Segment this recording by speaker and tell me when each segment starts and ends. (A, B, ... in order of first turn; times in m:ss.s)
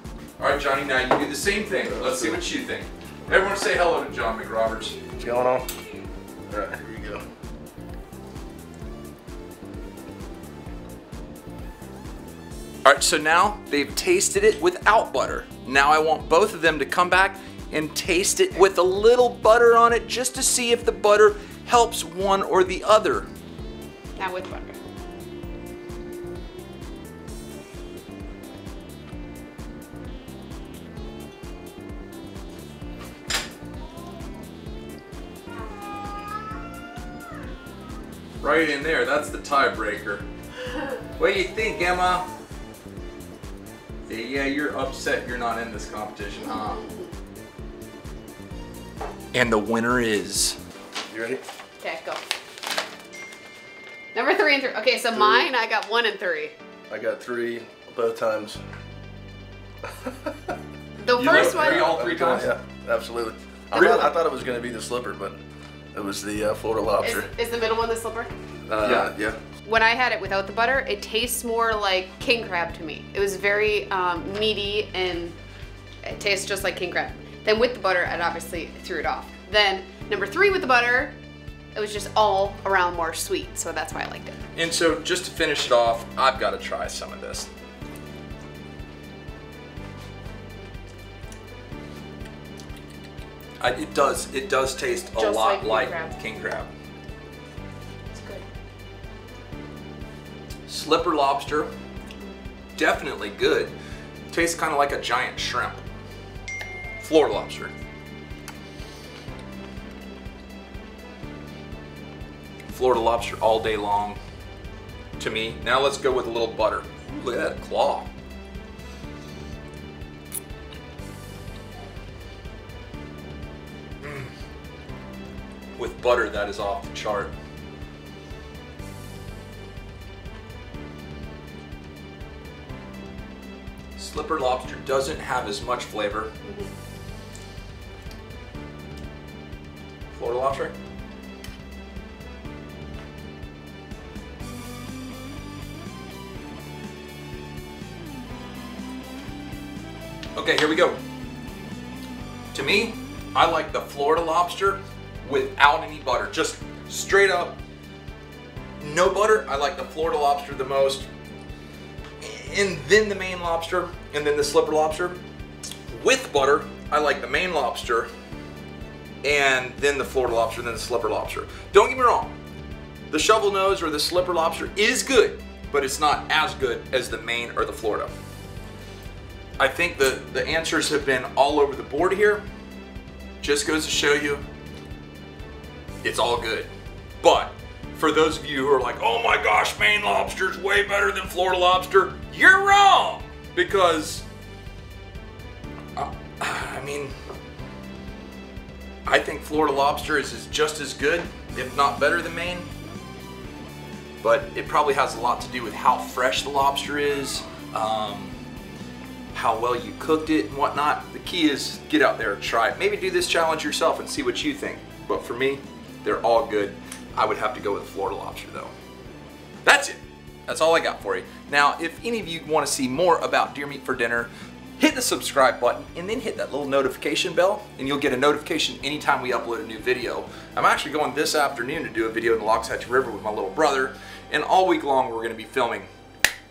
0:00.4-0:05.0 A
0:05.2-0:05.7 B
0:06.5-0:07.2 B
0:12.8-0:23.3 A
0:24.2-0:24.8 C
0:38.4-0:40.2 A
0:41.2-0:42.3 A
0:44.1-0:46.9 A
0:49.3-0:50.6 A
0:51.1-0:51.4 B
0:51.8-0:52.2 C
0:54.1-0:56.6 C
0:55.1-0:55.5 B
0:56.9-0:58.6 B
0:59.8-1:00.5 B
1:01.0-1:02.0 C
1:01.1-1:02.5 A
1:01.2-1:05.4 B
1:03.7-1:04.1 A
1:05.9-1:07.3 B
1:07.0-1:08.3 C
1:08.7-1:09.4 B
1:08.7-1:09.1 A
1:09.6-1:15.4 C
1:16.0-1:21.1 C
1:21.8-1:24.4 C
1:24.6-1:27.5 A
1:33.6-1:36.7 A
1:35.1-1:36.2 C
1:38.1-1:38.4 C
1:40.7-1:41.7 A
1:42.8-1:43.7 A
1:44.3-1:45.8 A
1:47.0-1:47.7 A
1:52.7-1:54.2 A
1:55.2-1:58.1 A
2:04.0-2:04.3 A
2:05.8-2:07.3 A
2:14.0-2:16.3 A
2:16.4-2:16.7 C
2:20.1-2:20.8 A
2:30.4-2:31.0 A
2:32.5-2:37.6 A
2:38.8-2:41.1 A
2:42.2-2:45.2 A
2:45.9-2:48.1 A
2:49.2-2:52.3 A
2:53.1-2:58.1 A
2:59.6-3:02.4 A
3:03.4-3:04.4 A
3:06.0-3:06.7 A
3:07.2-3:14.2 A
3:15.9-3:17.1 A
3:19.0-3:22.7 A
3:24.2-3:28.4 A
3:29.3-3:38.7 A
3:39.6-3:55.9 A